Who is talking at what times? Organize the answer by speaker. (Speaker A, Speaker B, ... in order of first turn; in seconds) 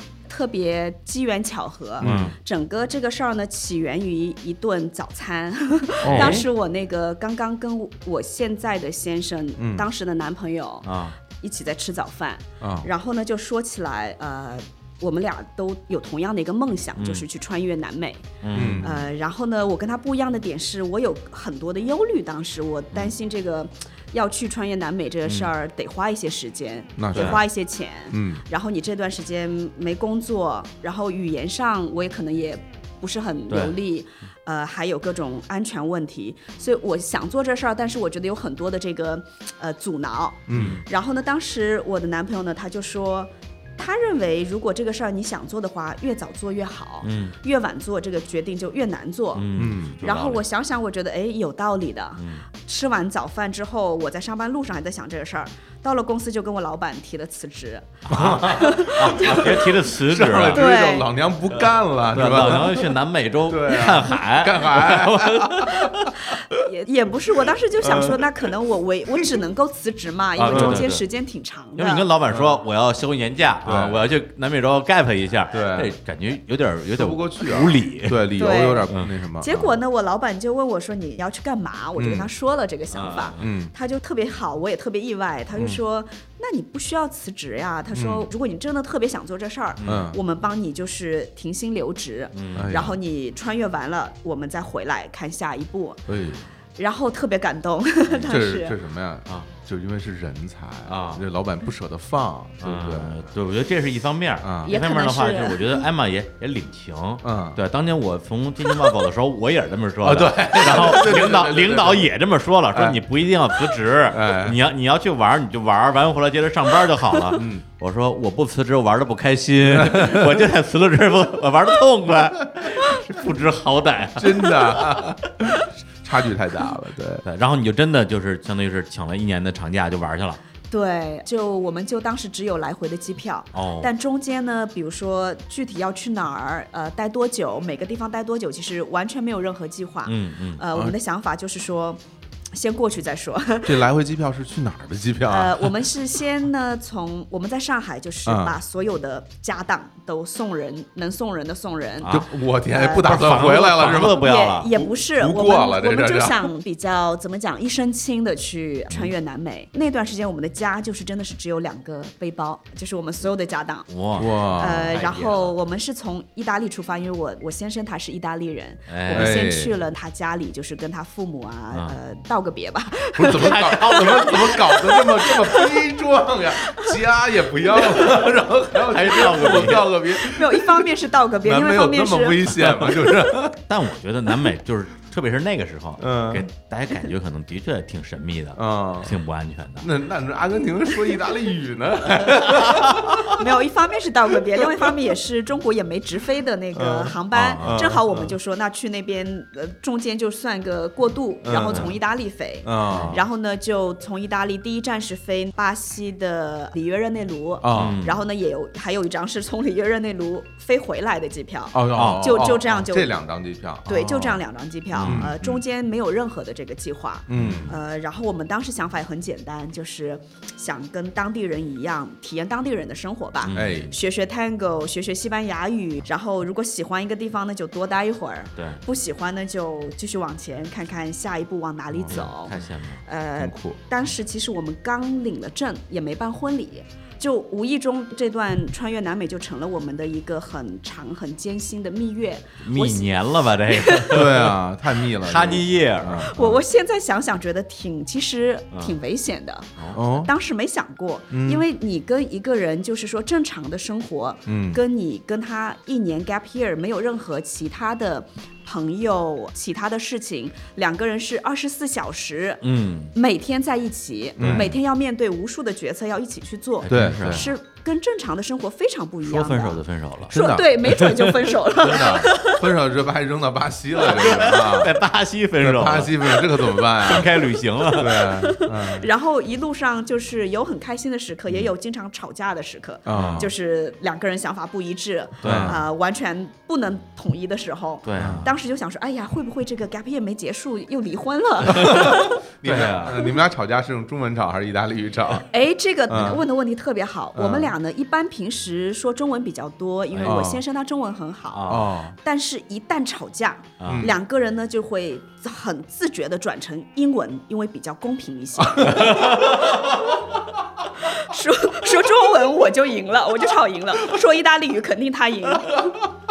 Speaker A: 0.3-18.3, 18.8-49.5, 50.0-57.9, 58.4-59.7, 60.5-61.1, 66.5-72.1, 78.4-78.9, 79.4-96.0, 96.8-98.8, 104.7-105.8, 130.7-142.0, 142.5-143.9, 145.3-152.2, 152.7-163.9, 164.6-175.7, 180.2-182.5, 193.3-213.1, 213.9-243.1, 243.7-244.2, 246.3-262.6, 263.1-272.6, 277.9-292.4, 295.5-309.2, 311.1-315.9
Speaker B: 2.0-2.4, 6.0-6.5, 10.8-11.2, 17.0-17.2, 18.4-19.0, 25.2-25.5, 27.1-27.4, 33.5-33.8, 40.5-40.8, 47.0-47.4, 49.3-50.4, 52.2-52.5, 58.1-60.7, 61.6-66.2, 70.4-71.0, 71.8-78.3, 82.9-83.6, 89.8-90.1, 92.3-92.8, 100.9-101.2, 102.6-125.1, 127.2-130.4, 133.5-133.9, 140.1-140.6, 152.0-152.3, 152.9-154.7, 163.9-165.5, 168.9-169.4, 173.3-174.6, 178.7-180.0, 182.8-189.9, 192.5-193.2, 197.3-197.9, 201.6-201.9, 202.9-203.2, 207.7-208.2, 211.9-212.3, 214.9-215.3, 217.4-217.8, 223.4-223.9, 228.6-228.8, 232.1-233.0, 242.6-244.6, 245.2-246.3, 248.7-249.0, 262.6-263.1, 264.4-264.8, 266.8-267.5, 269.2-271.4, 274.0-278.3, 283.1-283.5, 285.4-285.8, 288.0-288.5, 291.6-293.2, 300.1-300.6, 301.5-301.9, 303.8-304.1, 308.8-310.0
Speaker C: 2.0-2.3, 6.0-6.4, 9.6-9.9, 12.6-12.9, 18.5-19.0, 27.0-27.4, 28.1-28.4, 40.5-40.8, 49.6-50.0, 58.1-58.6, 59.2-63.0, 63.5-66.1, 67.8-68.2, 70.5-70.8, 72.3-72.6, 73.7-74.1, 75.5-75.9, 76.9-79.6, 82.0-82.3, 83.4-83.7, 87.9-88.3, 89.8-90.2, 92.5-93.0, 96.1-96.4, 98.2-103.3, 104.4-104.7, 107.2-107.6, 110.0-112.1, 112.7-113.0, 114.1-114.6, 117.3-117.7, 119.8-120.3, 124.2-127.2, 143.6-145.9, 148.3-148.6, 152.1-156.5, 164.2-165.0, 169.1-169.7, 173.2-180.9, 181.4-183.6, 186.0-186.5, 188.6-189.2, 189.8-193.4, 196.7-198.3, 201.4-201.9, 202.7-203.2, 207.6-208.0, 211.7-214.4, 215.0-215.6, 217.3-217.7, 223.5-223.9, 231.9-232.2, 233.4-233.8, 244.1-246.6, 249.9-250.3, 251.3-251.6, 254.5-254.8, 264.4-264.7, 266.9-267.5, 270.3-271.1, 271.8-274.9, 275.6-277.4, 277.9-279.1, 283.1-283.5, 285.4-285.8, 288.2-288.5, 291.7-295.5, 296.1-296.4, 297.4-297.7, 300.2-300.6, 301.7-302.2, 303.9-304.1, 308.6-309.8